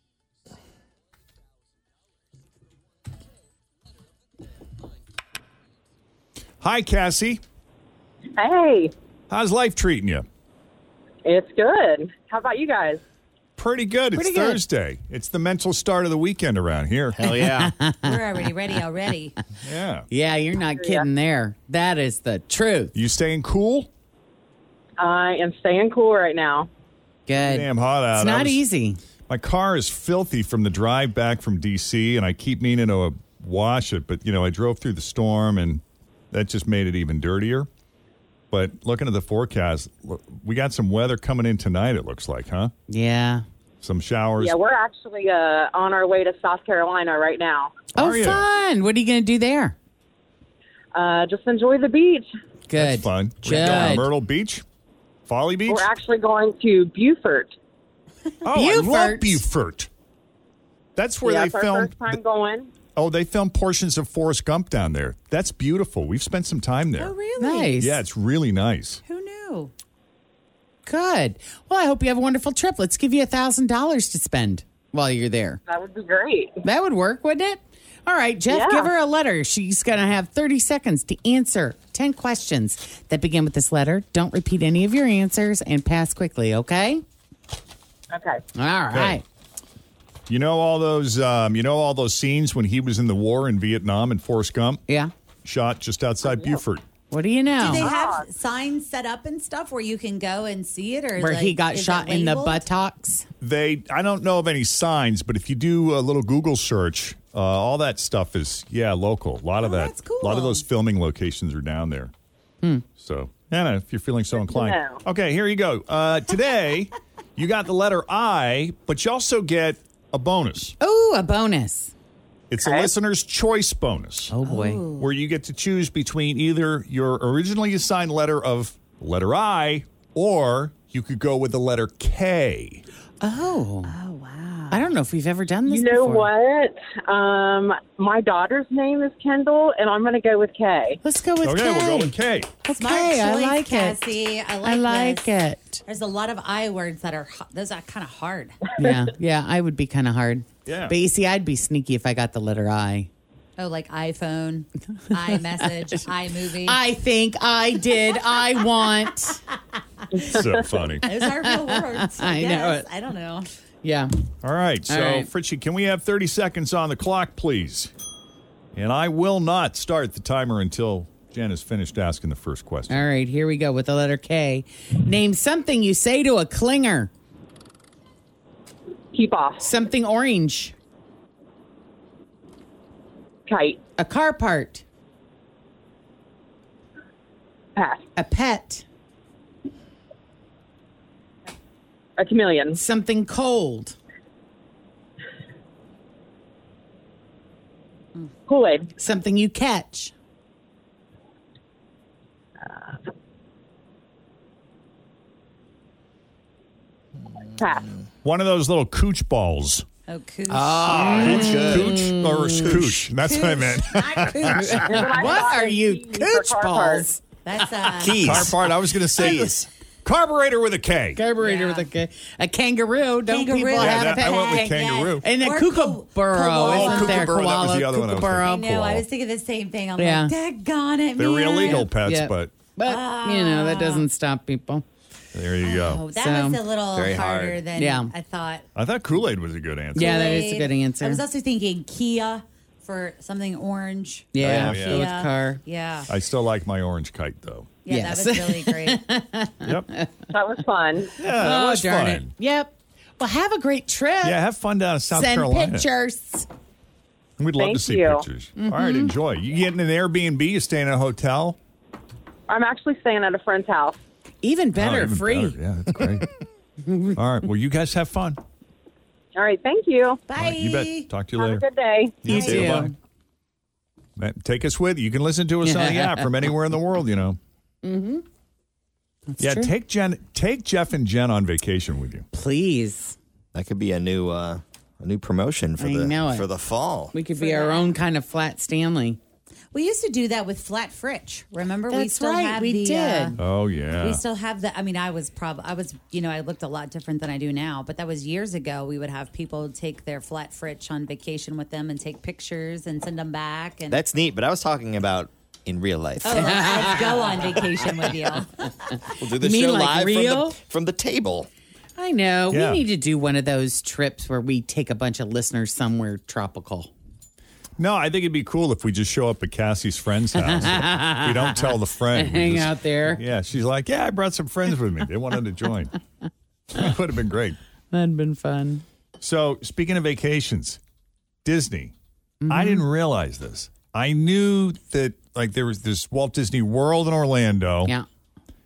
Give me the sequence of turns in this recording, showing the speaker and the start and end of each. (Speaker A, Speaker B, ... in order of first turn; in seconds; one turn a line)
Speaker A: 6.6-7.4
Speaker B: 8.4-8.9
Speaker A: 9.3-10.2
Speaker B: 11.2-13.0
Speaker A: 13.6-17.3
Speaker C: 14.1-14.6
Speaker D: 17.1-17.7
Speaker C: 17.3-18.2
Speaker E: 18.0-19.4
Speaker A: 19.6-20.1
Speaker C: 20.1-22.9
Speaker B: 20.8-21.1
Speaker A: 22.9-23.9
Speaker B: 25.0-26.7
Speaker C: 27.3-29.0
Speaker A: 27.4-28.6
Speaker A: 29.3-37.7
Speaker A: 38.5-42.7
Speaker C: 42.9-43.5
Speaker A: 43.8-44.6
Speaker B: 44.4-47.8
Speaker A: 48.0-48.5
Speaker C: 48.0-49.8
Speaker B: 50.9-52.3
Speaker C: 52.7-54.1
Speaker A: 52.8-54.6
Speaker A: 55.3-55.9
Speaker B: 55.7-57.5
Speaker A: 58.4-59.9
Speaker C: 58.5-59.4
Speaker A: 61.0-62.2
Speaker B: 61.2-62.7
Speaker A: 63.0-67.1
Speaker E: 67.0-67.8
Speaker C: 67.4-68.0
Speaker A: 67.8-69.0
Speaker E: 69.1-69.7
Speaker C: 70.9-75.6
Speaker B: 75.7-76.6
Speaker C: 76.6-87.0
Speaker B: 78.5-78.9
Speaker B: 88.1-88.4
Speaker C: 88.5-89.2
Speaker A: 88.9-89.2
Speaker A: 90.3-94.8
Speaker A: 95.4-96.8
Speaker C: 97.1-97.9
Speaker E: 97.6-102.6
Speaker B: 97.7-98.3
Speaker C: 101.2-103.3
Speaker A: 103.4-112.1
Speaker E: 109.6-110.6
Speaker A: 113.0-120.8
Speaker B: 114.3-115.0
Speaker C: 120.8-121.9
Speaker A: 122.5-124.3
Speaker B: 122.6-122.9
Speaker C: 124.3-124.8
Speaker E: 124.5-125.1
Speaker A: 125.0-132.8
Speaker C: 133.2-133.9
Speaker E: 133.9-134.8
Speaker C: 134.7-136.3
Speaker B: 135.7-141.0
Speaker C: 141.0-144.0
Speaker A: 141.4-142.5
Speaker E: 142.7-145.3
Speaker C: 144.6-145.8
Speaker E: 145.9-148.6
Speaker C: 148.8-153.1
Speaker A: 150.7-150.9
Speaker E: 153.6-156.8
Speaker C: 155.1-155.9
Speaker C: 156.6-159.4
Speaker A: 160.2-161.1
Speaker E: 161.0-163.5
Speaker C: 161.0-162.9
Speaker C: 163.8-164.1
Speaker A: 164.4-167.9
Speaker C: 164.9-165.3
Speaker A: 168.7-173.0
Speaker C: 172.9-177.1
Speaker B: 179.1-179.7
Speaker C: 179.6-180.8
Speaker B: 183.5-183.8
Speaker C: 184.0-184.8
Speaker B: 187.8-188.0
Speaker C: 188.2-188.8
Speaker B: 192.2-192.8
Speaker C: 192.7-194.0
Speaker B: 198.5-198.9
Speaker C: 199.0-200.1
Speaker B: 207.6-207.9
Speaker A: 208.2-209.9
Speaker E: 210.1-211.6
Speaker C: 210.5-213.0
Speaker A: 210.9-214.9
Speaker D: 210.9-212.1
Speaker E: 213.2-215.0
Speaker C: 214.4-217.2
Speaker B: 214.9-217.1
Speaker E: 217.4-218.5
Speaker D: 218.0-219.7
Speaker A: 218.2-221.2
Speaker C: 221.2-228.6
Speaker E: 221.4-221.9
Speaker E: 223.3-227.5
Speaker A: 223.8-225.2
Speaker A: 226.6-229.0
Speaker E: 228.4-231.9
Speaker C: 230.0-230.3
Speaker A: 231.2-232.5
Speaker C: 231.6-234.8
Speaker E: 232.8-234.1
Speaker A: 235.3-236.0
Speaker E: 235.6-238.7
Speaker C: 236.1-236.6
Speaker D: 236.9-237.6
Speaker C: 237.8-238.1
Speaker A: 238.8-240.4
Speaker C: 239.9-241.2
Speaker E: 239.9-246.1
Speaker C: 244.3-245.6
Speaker A: 244.4-245.1
Speaker A: 246.1-247.7
Speaker E: 247.8-249.0
Speaker C: 247.9-250.1
Speaker B: 250.3-251.1
Speaker A: 251.2-252.3
Speaker C: 251.3-254.4
Speaker A: 254.2-255.9
Speaker C: 255.1-256.5
Speaker A: 257.4-261.6
Speaker B: 257.6-258.2
Speaker C: 258.6-259.1
Speaker B: 262.5-264.0
Speaker C: 264.4-265.6
Speaker A: 264.8-266.3
Speaker C: 266.8-267.2
Speaker A: 267.2-268.4
Speaker B: 269.4-270.2
Speaker E: 270.3-271.1
Speaker A: 270.4-271.6
Speaker B: 271.4-272.2
Speaker A: 272.2-272.9
Speaker E: 272.2-272.7
Speaker C: 272.2-272.9
Speaker A: 274.2-277.4
Speaker C: 275.6-276.5
Speaker C: 277.8-278.2
Speaker C: 279.3-279.7
Speaker A: 279.4-282.2
Speaker C: 282.3-283.2
Speaker D: 283.5-287.1
Speaker C: 285.8-286.5
Speaker C: 287.1-289.2
Speaker E: 287.4-287.9
Speaker E: 289.7-293.4
Speaker C: 291.9-293.4
Speaker A: 293.4-294.2
Speaker E: 294.0-304.0
Speaker D: 303.9-307.0
Speaker E: 306.2-308.9
Speaker C: 306.3-307.6
Speaker C: 309.1-310.6
Speaker D: 309.2-311.5
Speaker C: 312.0-316.9
Speaker A: 312.5-312.8
Speaker A: 317.8-326.0
Speaker C: 320.4-323.2
Speaker A: 326.7-327.6
Speaker C: 327.9-328.8
Speaker A: 329.2-330.8
Speaker A: 331.4-331.9
Speaker C: 332.4-332.9
Speaker A: 332.5-337.9